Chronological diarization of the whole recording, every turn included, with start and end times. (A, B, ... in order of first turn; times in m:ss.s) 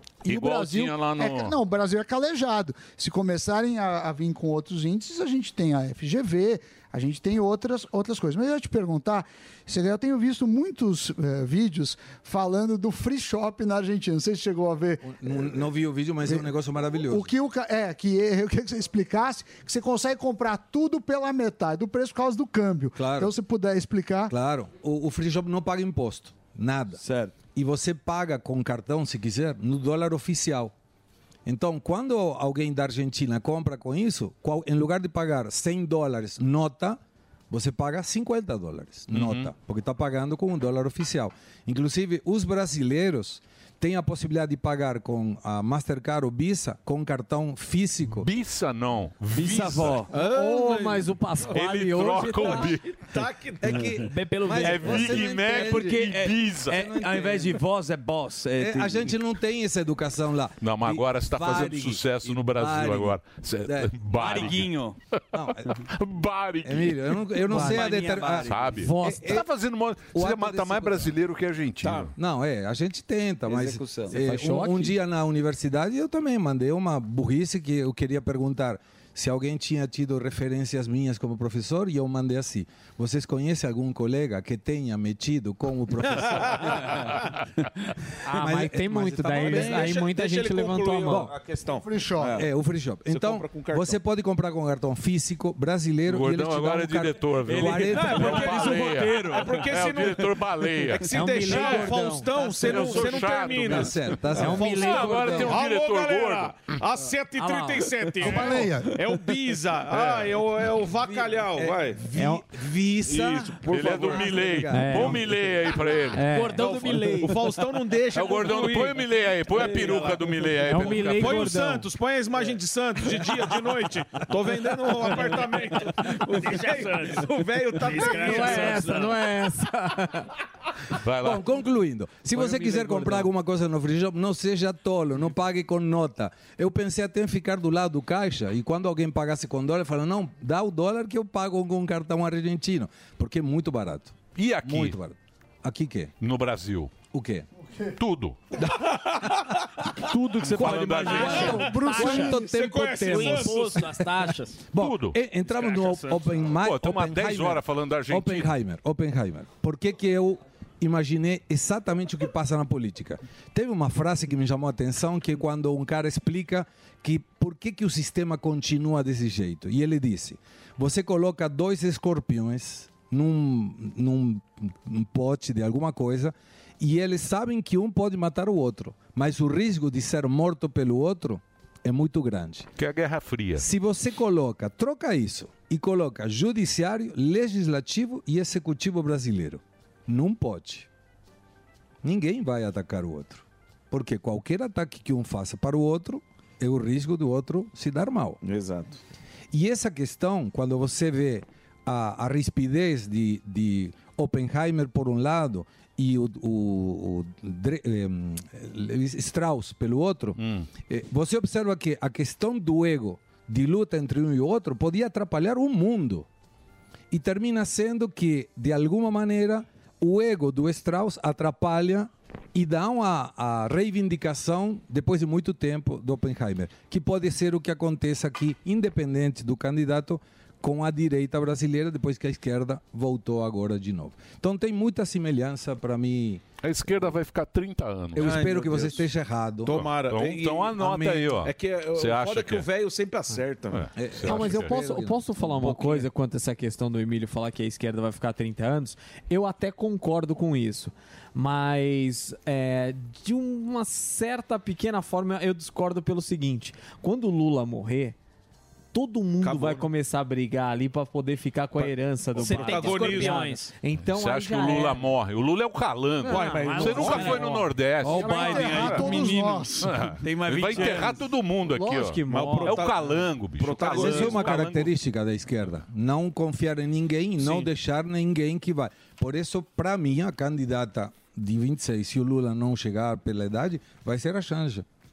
0:00.2-0:15.2 A
0:00.2-0:01.6 B
0:15.0-0:17.3 C
0:17.1-0:24.3 A
0:23.0-0:23.3 C
0:24.3-0:30.7 C
0:26.9-0:27.4 D
0:31.4-0:48.3 C
0:39.1-0:39.5 B
0:48.1-0:50.0 B
0:49.3-0:50.1 D
0:50.1-0:51.1 E
0:50.1-0:52.8 F
0:51.5-0:53.0 B
0:52.2-0:54.0 E
0:53.6-0:56.1 C
0:54.0-0:55.2 G
0:54.5-0:56.8 B
0:55.5-0:59.1 D
0:56.7-0:57.6 C
0:58.5-1:04.6 C
1:00.6-1:04.7 B
1:04.1-1:05.0 D
1:05.3-1:05.8 C
1:05.7-1:07.9 B
1:06.6-1:09.5 C
1:07.5-1:08.9 D
1:07.5-1:07.8 F
1:08.4-1:12.1 B
1:08.8-1:09.3 F
1:10.1-1:11.1 C
1:11.8-1:12.1 E
1:12.2-1:26.9 C
1:13.4-1:14.2 D
1:14.1-1:14.9 F
1:26.1-1:27.1 E
1:28.2-1:31.3 F
1:28.3-1:29.9 C
1:29.4-1:32.5 E
1:31.1-1:31.3 C
1:31.8-1:32.4 A
1:32.3-1:38.5 C
1:33.0-1:34.0 E
1:36.0-1:41.9 B
1:37.4-1:39.8 D
1:38.1-1:52.3 E
1:41.1-1:43.3 F
1:42.6-1:46.7 B
1:43.6-1:45.5 C
1:44.3-1:45.6 F
1:48.2-1:49.0 A
1:49.9-1:50.3 B
1:51.5-1:55.2 C
1:53.1-1:56.3 B
1:53.5-1:54.4 E
1:54.7-1:55.2 F
1:56.1-1:57.2 F
1:56.3-1:57.6 G
1:56.7-2:09.1 E
1:58.1-2:01.6 B
2:00.6-2:01.9 F
2:06.4-2:07.3 G
2:07.8-2:09.0 G
2:08.0-2:10.3 F
2:11.0-2:11.4 B
2:11.2-2:26.1 C
2:12.4-2:13.1 D
2:24.3-2:25.0 B
2:26.2-2:27.0 B
2:27.1-2:27.5 C
2:28.0-2:28.4 B
2:28.6-2:28.8 C
2:28.8-2:29.6 E
2:30.3-2:31.4 D
2:30.4-2:31.7 B
2:30.6-2:33.8 E
2:31.0-2:32.2 F
2:31.1-2:32.6 A
2:31.2-2:32.4 G
2:31.3-2:34.0 C
2:33.0-2:34.6 G
2:34.7-3:02.7 C
2:34.7-2:38.5 B
3:02.8-3:03.6 B
3:03.5-3:10.9 C
3:12.0-3:18.4 C
3:18.4-3:19.0 E
3:19.5-3:36.3 C
3:30.4-3:30.7 B
3:37.1-3:56.4 C
3:56.6-3:58.4 B
3:58.1-3:59.8 C
3:58.2-3:59.1 E
3:59.6-4:03.9 E
3:59.7-4:02.7 B
4:00.8-4:01.4 C
4:03.7-4:04.8 B
4:03.9-4:06.0 C
4:04.2-4:18.2 F
4:18.9-4:25.1 F
4:19.4-4:19.9 E
4:22.3-4:23.6 E
4:22.4-4:23.7 G
4:24.0-4:29.1 B
4:26.2-4:29.3 F
4:26.3-4:27.3 G
4:26.3-4:27.3 E
4:28.0-4:31.3 D
4:28.3-4:29.9 A
4:29.8-4:34.8 B
4:31.7-4:32.9 F
4:32.3-4:34.9 E
4:33.9-4:44.8 C